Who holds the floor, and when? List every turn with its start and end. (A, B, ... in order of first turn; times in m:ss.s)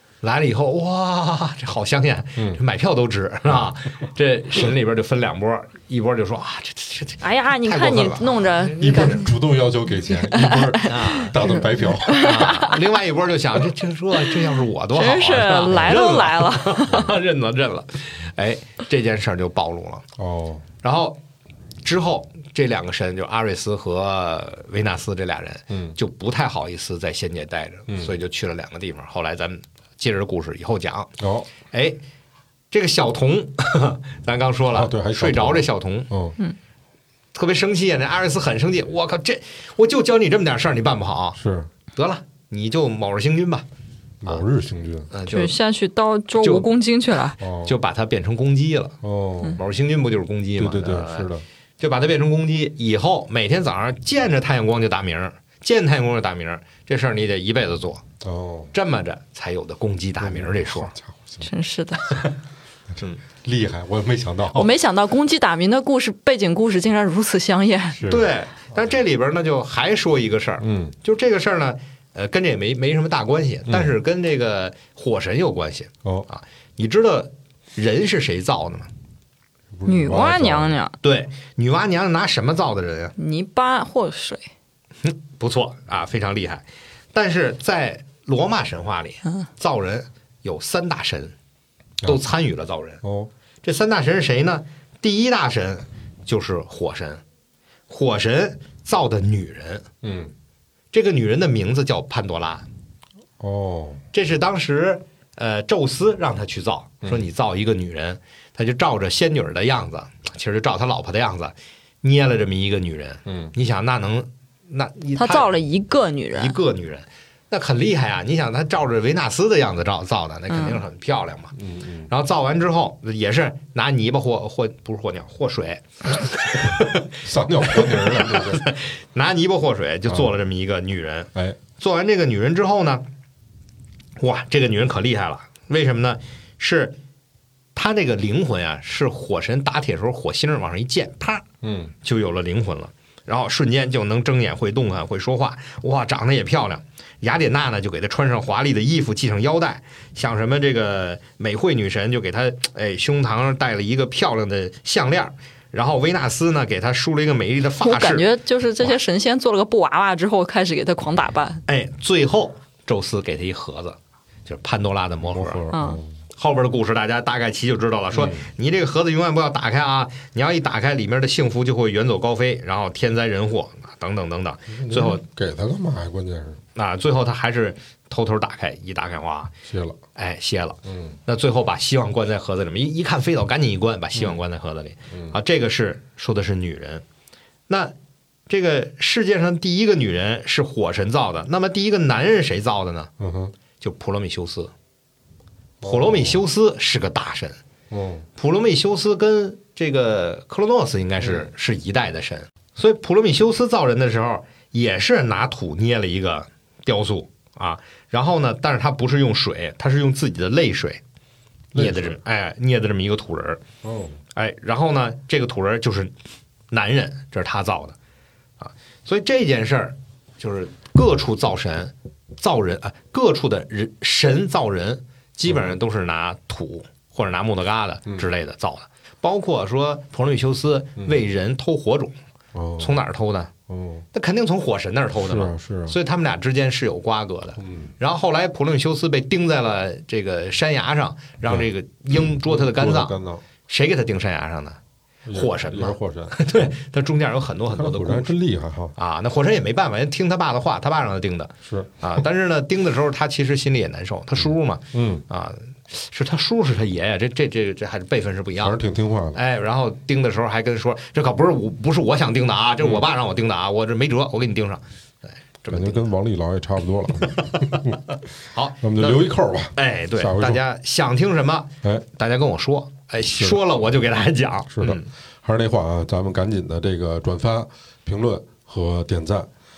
0:00.2-0:09.2 A
0:07.2-0:09.3 B
0:08.8-0:12.7 C
0:10.1-0:12.8 B
0:10.8-0:11.4 A
0:12.2-0:20.0 A
0:14.2-0:17.1 B
0:15.7-0:16.0 C
0:16.9-0:17.1 C
0:20.2-0:20.6 C
0:20.8-0:21.2 A
0:21.8-0:31.1 A
0:25.7-0:26.0 C
0:31.2-0:31.5 C
0:31.7-0:32.0 A
0:32.7-0:36.1 A
0:34.7-0:36.4 C
0:37.3-0:41.4 A
0:41.4-0:41.7 C
0:41.9-0:43.6 A
0:44.2-0:45.1 C
0:45.1-0:45.6 A
0:45.3-0:47.4 B
0:46.4-0:46.7 A
0:47.4-0:47.7 C
0:47.6-0:51.3 A
0:49.0-0:49.6 C
0:50.6-0:51.4 C
0:51.8-0:58.0 A
0:58.2-0:58.7 C
0:58.7-1:00.9 A
1:00.2-1:01.5 C
1:01.4-1:02.1 B
1:02.9-1:04.7 C
1:04.5-1:08.0 B
1:07.9-1:08.3 C
1:08.0-1:18.9 A
1:10.6-1:11.0 C
1:13.7-1:13.9 C
1:19.7-1:20.8 C
1:19.8-1:21.0 B
1:21.0-1:23.1 A
1:23.2-1:24.5 B
1:25.0-1:31.3 A
1:32.0-1:33.0 A
1:33.0-1:33.3 C
1:33.6-1:37.2 A
1:37.9-1:39.9 A
1:40.0-1:40.3 C
1:40.9-1:42.6 A
1:43.4-1:44.0 C
1:44.1-1:55.5 A
1:53.3-1:53.5 C
1:55.2-1:56.6 B
1:56.3-2:01.5 A
2:00.5-2:00.8 B
2:01.5-2:02.1 C
2:02.1-2:07.1 A
2:07.1-2:08.7 C
2:07.7-2:13.0 A
2:14.2-2:17.0 A
2:17.7-2:21.4 A
2:21.6-2:21.9 C
2:22.0-2:38.3 A
2:37.8-2:41.6 B
2:41.7-2:45.6 A
2:45.2-2:46.2 C
2:45.7-2:46.0 B
2:46.4-2:55.2 A
2:48.1-2:48.4 C
2:54.7-2:56.6 C
2:56.7-2:59.5 A
2:59.6-3:00.0 C
3:00.2-3:07.0 A
3:00.9-3:01.2 C
3:07.7-3:07.9 A
3:08.5-3:13.1 A
3:13.2-3:13.5 C
3:13.8-3:14.7 A
3:15.8-3:16.4 C
3:15.8-3:17.6 A
3:17.9-3:18.3 C
3:18.4-3:31.0 A
3:31.7-3:32.2 C
3:31.7-3:33.6 A
3:33.8-3:34.2 C
3:34.3-3:36.1 A
3:36.7-3:38.0 A
3:38.6-3:52.2 A
3:45.5-3:45.7 C
3:52.5-3:53.0 C
3:52.8-3:53.5 A
3:53.7-3:54.0 C
3:54.1-4:04.8 A
3:55.2-3:56.0 C
3:57.6-3:57.9 C
4:01.4-4:03.4 C
4:05.2-4:06.6 C
4:05.3-4:08.3 A
4:07.7-4:08.9 C
4:09.0-4:18.8 A
4:11.6-4:11.9 C
4:14.9-4:15.2 C
4:18.6-4:19.4 C
4:19.3-4:24.8 A
4:25.6-4:26.1 A
4:25.7-4:28.0 C
4:27.4-4:35.1 A
4:28.8-4:30.6 C
4:33.3-4:33.6 C
4:34.7-4:39.5 C